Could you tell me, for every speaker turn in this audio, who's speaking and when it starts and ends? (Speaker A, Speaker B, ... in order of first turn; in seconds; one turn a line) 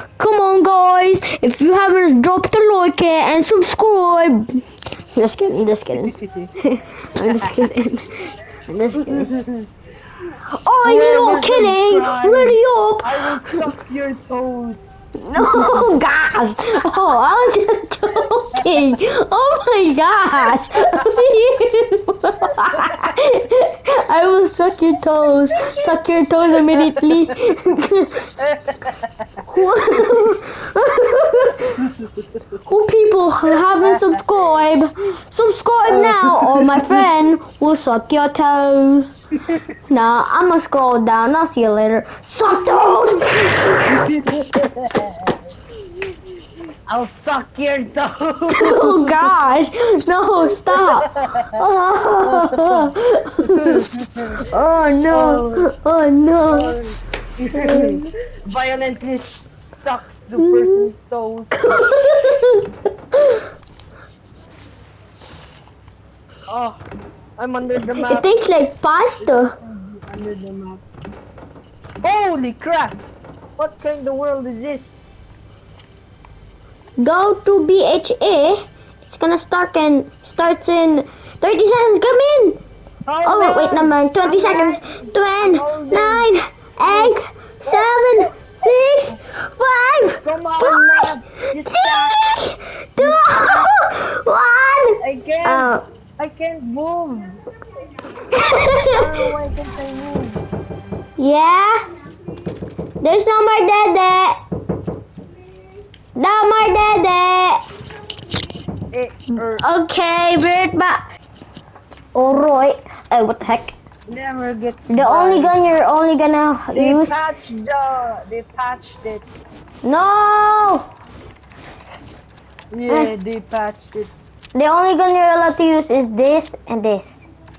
Speaker A: 0.2-4.6
Speaker A: 5.2-9.3
Speaker B: 6.0-6.5
Speaker B: 7.2-7.6
Speaker B: 9.1-9.7
Speaker A: 10.5-13.7
Speaker B: 10.8-15.9
Speaker A: 15.2-28.2
Speaker B: 25.6-25.9
Speaker B: 26.7-27.3
Speaker B: 28.4-29.3
Speaker A: 29.5-31.8
Speaker B: 31.8-32.2
Speaker A: 32.6-39.2
Speaker B: 33.8-34.2
Speaker B: 35.9-37.1
Speaker A: 39.9-44.1
Speaker B: 43.7-45.4
Speaker B: 46.9-49.4
Speaker A: 48.5-53.9
Speaker B: 50.7-51.6
Speaker B: 52.2-52.9
Speaker B: 53.5-54.4
Speaker A: 54.4-56.8
Speaker B: 55.1-55.6
Speaker B: 56.5-61.9
Speaker A: 57.5-58.1
Speaker A: 60.4-60.9
Speaker A: 61.6-63.4
Speaker B: 66.5-66.8
Speaker B: 67.4-68.3
Speaker A: 68.0-69.5
Speaker B: 69.2-70.8
Speaker B: 72.0-73.0
Speaker B: 73.6-75.1
Speaker A: 77.0-82.6
Speaker B: 83.1-86.3
Speaker A: 83.2-91.1
Speaker B: 86.8-88.7
Speaker B: 90.2-92.4
Speaker A: 91.7-95.8
Speaker B: 93.0-93.7
Speaker B: 95.0-97.4
Speaker A: 98.3-99.0
Speaker B: 98.9-100.4
Speaker A: 101.2-101.8
Speaker A: 103.0-104.4
Speaker A: 106.2-107.6
Speaker B: 108.9-109.6
Speaker A: 109.6-111.0
Speaker A: 112.2-113.8
Speaker B: 114.1-115.6
Speaker A: 114.9-117.2
Speaker B: 116.7-119.3
Speaker A: 119.8-120.9
Speaker B: 122.7-124.1
Speaker A: 124.5-127.3